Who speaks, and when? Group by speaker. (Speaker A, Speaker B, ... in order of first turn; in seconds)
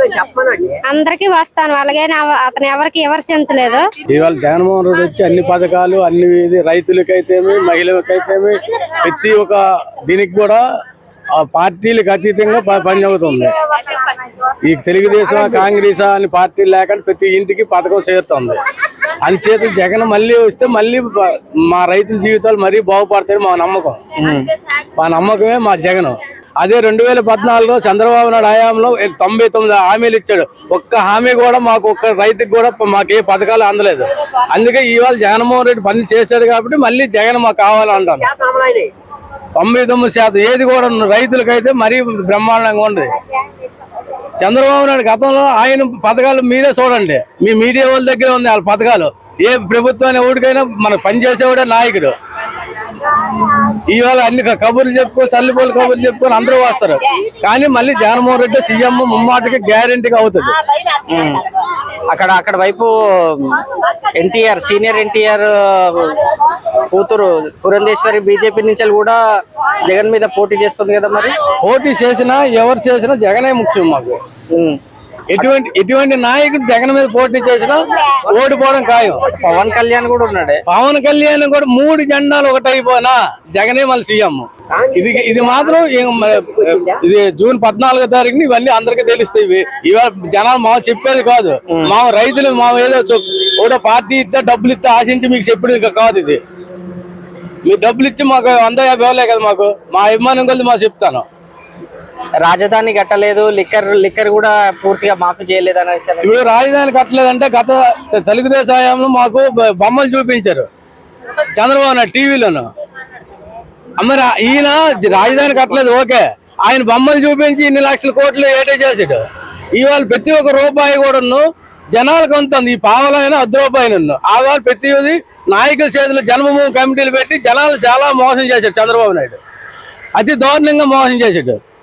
Speaker A: 0.9-3.9
Speaker B: 4.1-10.6, 11.4-13.5, 14.6-18.6, 19.2-24.0, 25.0-38.3, 39.6-43.1, 44.4-52.1, 53.9-60.6, 71.6-74.2, 75.3-79.3, 80.7-96.4, 97.7-101.3, 106.2-110.7, 111.5-112.7, 114.0-119.2, 119.8-129.4, 130.2-131.6
Speaker C: 24.2-24.5, 61.1-61.4, 62.1-66.2, 66.9-69.2, 69.8-71.4, 74.5-74.8, 79.3-80.6, 102.4-106.3